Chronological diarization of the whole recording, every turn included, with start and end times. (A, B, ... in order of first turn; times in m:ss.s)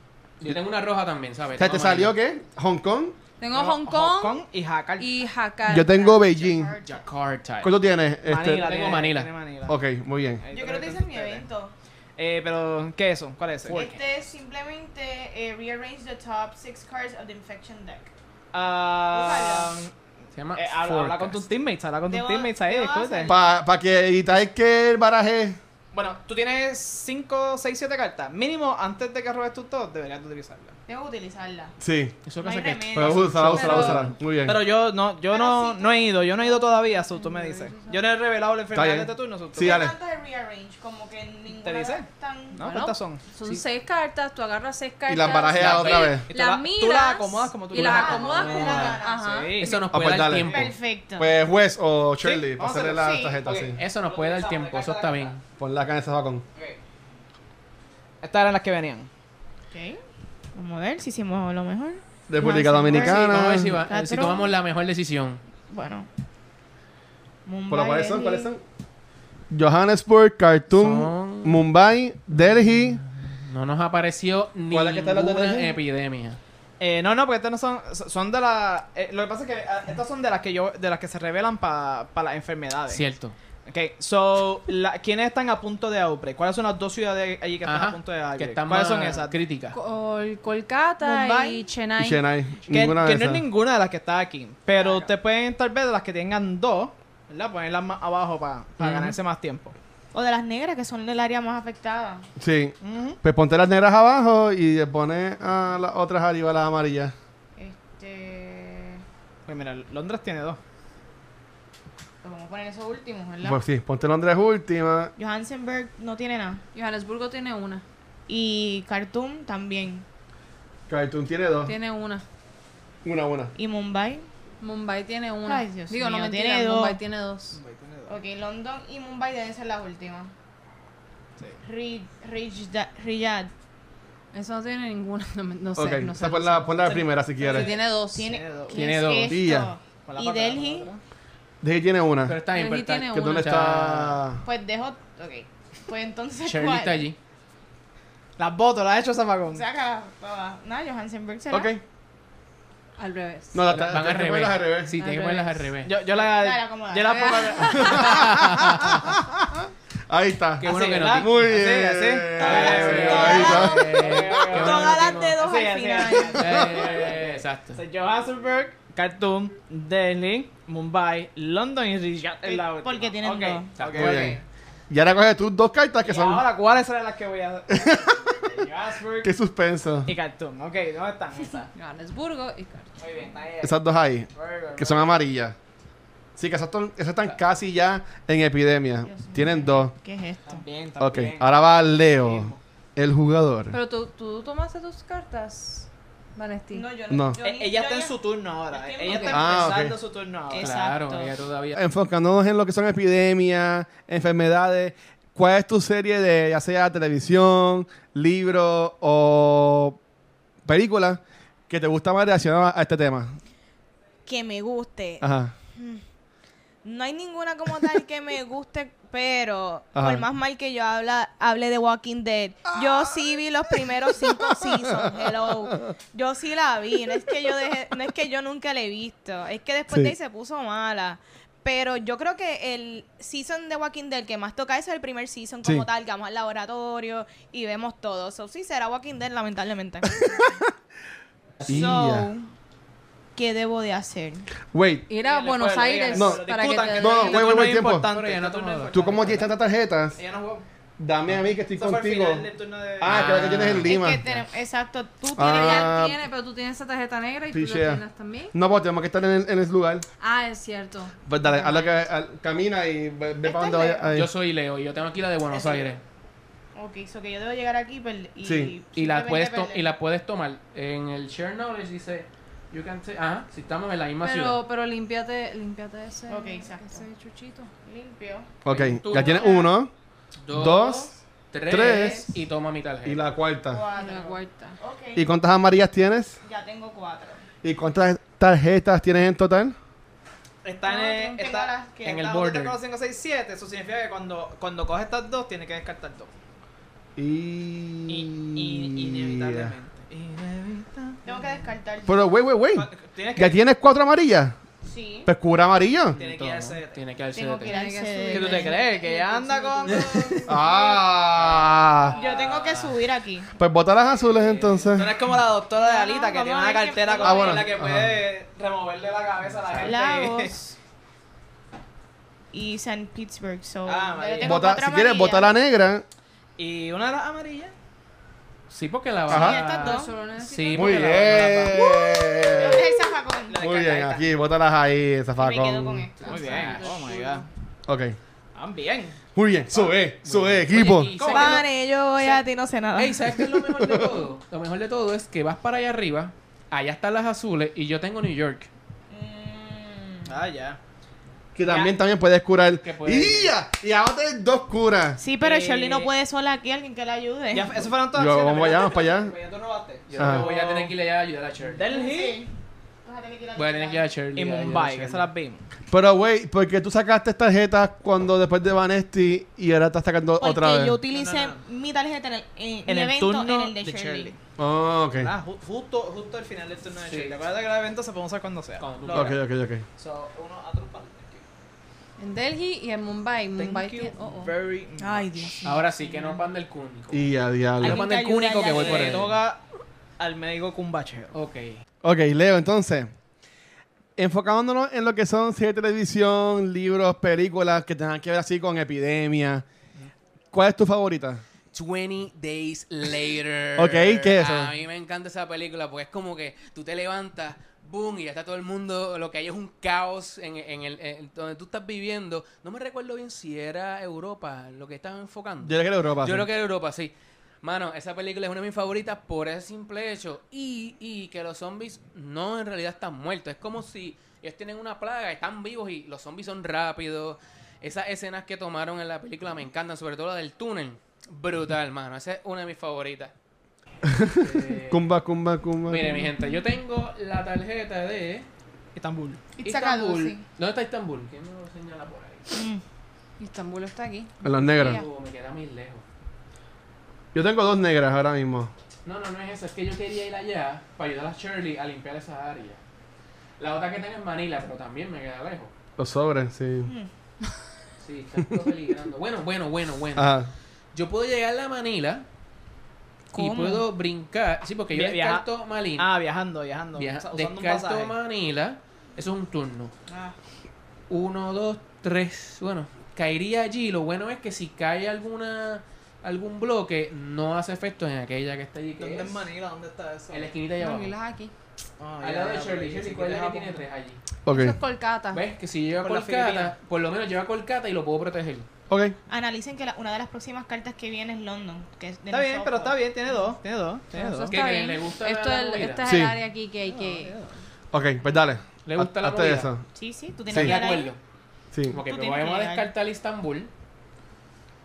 0:00.4-0:02.1 A
0:01.6-0:03.2 B
0:03.4-0:04.4 C
0:03.5-0:05.2 D
0:05.0-0:05.9 C
0:05.7-0:06.7 B
0:05.7-0:07.1 E
0:06.8-0:07.8 A
0:07.6-0:08.7 B
0:08.2-0:09.8 D
0:08.4-0:09.3 A
0:09.7-0:10.4 B
0:10.4-0:11.5 D
0:10.5-0:11.7 E
0:12.2-0:13.9 D
0:13.6-0:14.0 A
0:13.7-0:18.1 E
0:18.5-0:19.9 D
0:19.1-0:19.7 E
0:20.3-0:21.4 A
0:20.5-0:23.3 D
0:22.1-0:23.4 E
0:23.2-0:25.6 B
0:25.9-0:30.8 D
0:30.8-0:31.7 E
0:31.8-0:32.2 B
0:32.2-0:34.1 A
0:32.4-0:33.4 E
0:32.9-0:34.6 B
0:33.5-0:34.1 C
0:34.4-0:39.9 D
0:35.3-0:38.0 E
0:38.7-0:39.9 B
0:39.6-0:42.6 E
0:41.5-0:43.2 D
0:42.5-0:49.7 C
0:45.1-0:46.2 B
0:45.6-0:46.1 A
0:45.6-0:49.9 D
0:47.7-0:49.2 E
0:48.4-0:49.0 A
0:49.6-0:50.7 A
0:49.9-0:53.8 B
0:50.5-0:51.3 E
0:52.2-0:55.4 D
0:52.8-0:53.4 E
0:53.7-0:55.4 A
0:55.6-0:56.4 B
0:58.2-0:59.1 D
0:59.7-1:00.0 E
1:00.5-1:04.5 E
1:02.3-1:03.8 B
1:02.9-1:05.4 A
1:05.7-1:06.1 E
1:07.4-1:08.5 E
1:07.7-1:08.6 B
1:09.5-1:13.0 B
1:10.7-1:11.6 A
1:12.3-1:16.4 A
1:14.7-1:15.8 B
1:16.8-1:23.0 D
1:22.9-1:23.4 A
1:23.7-1:29.3 D
1:27.6-1:29.8 A
1:29.7-1:32.2 C
1:31.0-1:31.6 E
1:32.0-1:33.4 B
1:32.7-1:39.7 D
1:34.8-1:35.0 C
1:38.8-1:39.1 B
1:40.1-1:42.2 E
1:42.4-1:47.1 B
1:42.8-1:43.2 D
1:47.6-1:49.0 E
1:49.4-1:50.6 D
1:52.2-1:53.6 E
1:53.4-1:55.1 B
1:55.2-1:56.6 E
1:56.7-1:57.8 C
1:58.3-2:00.0 E
2:00.9-2:01.7 B
2:01.6-2:02.2 C
2:03.0-2:03.5 B
2:03.5-2:04.2 E
2:04.6-2:07.6 C
2:05.4-2:07.0 E
2:07.5-2:08.2 D
2:08.1-2:10.3 E
2:11.6-2:13.5 E
2:14.3-2:18.3 C
2:15.8-2:17.7 B
2:16.8-2:18.8 D
2:18.1-2:20.9 E
2:18.7-2:19.4 A
2:19.3-2:19.7 B
2:20.0-2:21.0 D
2:21.6-2:22.4 B
2:22.3-2:24.2 A
2:22.5-2:23.6 C
2:23.1-2:24.4 B
2:24.4-2:27.0 E
2:26.4-2:27.2 A
2:28.4-2:29.6 D
2:29.5-2:31.7 E
2:31.5-2:31.8 B
2:33.0-2:33.7 C
2:33.5-2:34.9 B
2:33.7-2:35.9 A
2:35.0-2:35.7 C
2:35.8-2:38.4 D
2:36.2-2:37.8 E
2:37.1-2:38.2 C
2:37.7-2:44.0 B
2:38.0-2:39.1 A
2:40.6-2:41.6 A
2:40.6-2:54.3 D
2:42.4-2:45.4 A
2:42.4-2:47.0 E
2:46.4-2:47.8 A
2:52.4-2:53.7 E
2:53.8-2:54.2 A
2:53.9-2:54.4 B
2:54.0-2:54.4 C
2:54.9-2:56.5 B
2:56.0-2:59.3 D
2:57.7-2:58.4 B
2:59.2-3:00.1 B
3:00.0-3:01.7 D
3:01.7-3:02.9 C
3:03.0-3:03.8 D
3:03.6-3:05.6 B
3:04.3-3:05.2 D
3:06.4-3:09.9 B
3:09.0-3:10.6 E
3:10.4-3:12.6 D
3:11.0-3:13.8 B
3:13.7-3:16.9 C
3:16.7-3:19.8 E
3:17.1-3:17.4 B
3:17.4-3:20.7 D
3:19.0-3:19.3 C
3:19.3-3:20.0 B
3:20.5-3:21.3 E
3:20.6-3:21.8 A
3:21.7-3:30.0 B
3:30.6-3:33.4 B
3:34.2-3:36.0 E
3:35.2-3:35.5 B
3:36.8-4:00.6 E
3:39.9-3:40.2 B
3:42.8-3:43.2 B
3:44.4-3:45.3 B
3:49.9-3:50.1 B
4:00.2-4:00.6 B
4:01.6-4:02.3 B
4:01.6-4:02.5 E
4:03.3-4:04.5 E
4:04.7-4:05.1 B
4:05.1-4:07.5 C
4:05.2-4:09.5 D
4:06.1-4:08.1 B
4:08.1-4:09.4 A
4:08.9-4:10.2 B
4:10.2-4:10.6 D
4:11.0-4:12.4 B
4:11.7-4:13.4 D
4:13.0-4:14.4 B
4:13.0-4:13.9 A
4:13.8-4:15.9 E
4:15.4-4:16.2 B
4:15.4-4:18.5 C
4:17.5-4:18.0 B
4:18.5-4:20.0 B
4:20.2-4:22.0 C
4:21.2-4:24.3 B
4:23.4-4:24.1 E
4:24.1-4:26.0 A
4:25.5-4:26.0 E
4:26.7-4:29.9 E
4:28.4-4:28.8 B
4:28.9-4:34.6 A
4:34.2-4:37.7 C
4:36.3-4:37.0 E
4:37.8-4:38.5 E
4:38.6-4:39.9 B
4:38.7-4:39.6 A
4:39.1-4:39.7 E
4:40.4-4:43.2 A
4:40.5-4:41.1 B
4:41.7-4:42.3 B
4:41.7-4:42.2 E
4:43.0-4:43.8 B
4:43.7-4:45.3 E
4:43.9-4:44.8 C
4:45.1-4:46.4 B
4:46.4-4:47.4 E
4:47.6-4:49.8 B
4:50.6-4:56.3 D
4:50.8-4:52.3 E
4:52.0-4:52.8 A
4:57.2-4:59.7 B
4:58.1-5:01.6 D
5:01.2-5:02.3 E
5:02.0-5:04.5 B
5:02.7-5:03.6 D
5:04.8-5:05.3 E
5:05.2-5:06.2 B
5:06.1-5:07.0 D
5:06.1-5:07.8 A
5:07.4-5:10.9 E
5:07.6-5:08.9 C
5:08.3-5:10.8 D
5:09.9-5:10.4 A
5:10.5-5:12.2 B
5:12.0-5:12.9 D
5:12.2-5:13.5 E
5:13.6-5:15.1 B
5:14.3-5:15.0 A
5:14.9-5:20.5 D
5:15.7-5:17.7 E
5:17.2-5:18.2 B
5:19.6-5:19.9 A
5:19.8-5:20.7 E
5:22.5-5:25.5 E
5:23.8-5:24.7 D
5:24.4-5:26.0 B
5:26.6-5:27.7 D
5:28.7-5:31.8 A
5:29.3-5:29.6 B
5:29.3-5:30.1 E
5:29.7-5:31.5 C
5:30.7-5:32.9 B
5:31.8-5:33.6 E
5:32.5-5:34.3 D
5:33.6-5:36.1 B
5:35.4-5:36.8 E
5:36.2-5:36.8 A
5:36.2-5:37.4 D
5:36.3-5:37.4 C
5:37.9-5:38.2 B
5:38.5-5:39.2 D
5:39.3-5:41.1 B
5:39.7-5:40.0 D
5:40.2-5:41.6 A
5:41.1-5:41.7 D
5:41.3-5:43.4 E
5:42.2-5:42.4 D
5:42.9-5:48.7 A
5:43.4-5:44.2 B
5:49.1-5:50.4 E
5:50.2-5:50.8 D
5:51.5-5:55.2 B
5:51.6-5:51.9 D
5:52.8-5:53.5 A
5:55.2-5:57.9 E
5:55.4-5:56.1 D
5:57.5-6:00.9 D
5:58.1-5:59.3 B
6:00.1-6:01.8 A
6:00.2-6:00.5 B
6:01.6-6:02.4 D
6:01.9-6:02.5 E
6:03.0-6:04.1 E
6:03.5-6:05.3 A
6:04.3-6:05.6 D
6:05.9-6:11.0 B
6:10.4-6:14.3 E
6:11.1-6:11.6 D
6:12.9-6:14.4 D
6:14.6-6:15.3 B
6:15.1-6:19.4 D
6:17.1-6:17.4 A
6:18.8-6:19.3 A
6:19.1-6:19.8 B
6:20.0-6:21.4 D
6:22.2-6:24.5 C
6:23.6-6:25.5 D
6:25.0-6:26.4 E
6:25.6-6:27.3 A
6:27.1-6:28.0 B
6:27.8-6:29.4 A
6:27.8-6:29.3 E
6:28.7-6:29.6 D
6:30.2-6:31.3 D
6:31.3-6:31.8 A
6:32.0-6:33.1 B
6:34.2-6:39.6 B
6:40.5-6:41.4 B
6:41.7-7:13.3 A
6:43.8-6:44.7 B
6:55.6-6:56.5 B
7:14.0-7:16.3 B
7:14.3-7:15.0 A
7:15.9-7:18.5 A
7:18.9-7:19.4 D
7:19.6-7:20.4 E
7:19.6-7:22.5 A
7:22.5-7:22.8 E
7:23.4-7:25.0 C
7:24.4-7:25.0 B
7:24.7-7:26.0 A
7:27.3-7:28.7 B
7:29.0-7:32.8 A
7:33.6-7:35.7 A
7:36.0-7:36.9 B
7:36.8-7:37.1 E
7:38.0-7:40.4 A
7:40.2-7:40.5 B
7:40.9-7:42.2 A
7:43.3-7:43.8 E
7:43.3-7:46.1 A
7:44.9-7:45.4 D
7:46.0-7:48.1 D
7:46.9-7:49.9 A
7:50.1-7:50.3 E
7:51.1-7:59.4 A
7:59.0-8:00.5 D
8:00.3-8:01.1 A
8:00.8-8:01.5 C
8:02.0-8:03.8 D
8:02.2-8:04.2 A
8:04.4-8:04.8 B
8:04.5-8:05.4 C
8:05.3-8:08.7 A
8:06.0-8:06.7 D
8:08.9-8:09.1 B
8:09.3-8:13.0 E
8:12.3-8:14.5 D
8:14.1-8:17.4 C
8:14.5-8:16.1 A
8:16.0-8:16.4 B
8:16.9-8:17.5 D
8:17.9-8:19.8 B
8:18.8-8:19.7 A
8:19.9-8:21.1 E
8:20.5-8:20.8 B
8:20.5-8:21.2 A
8:21.9-8:23.7 A
8:22.0-8:22.9 E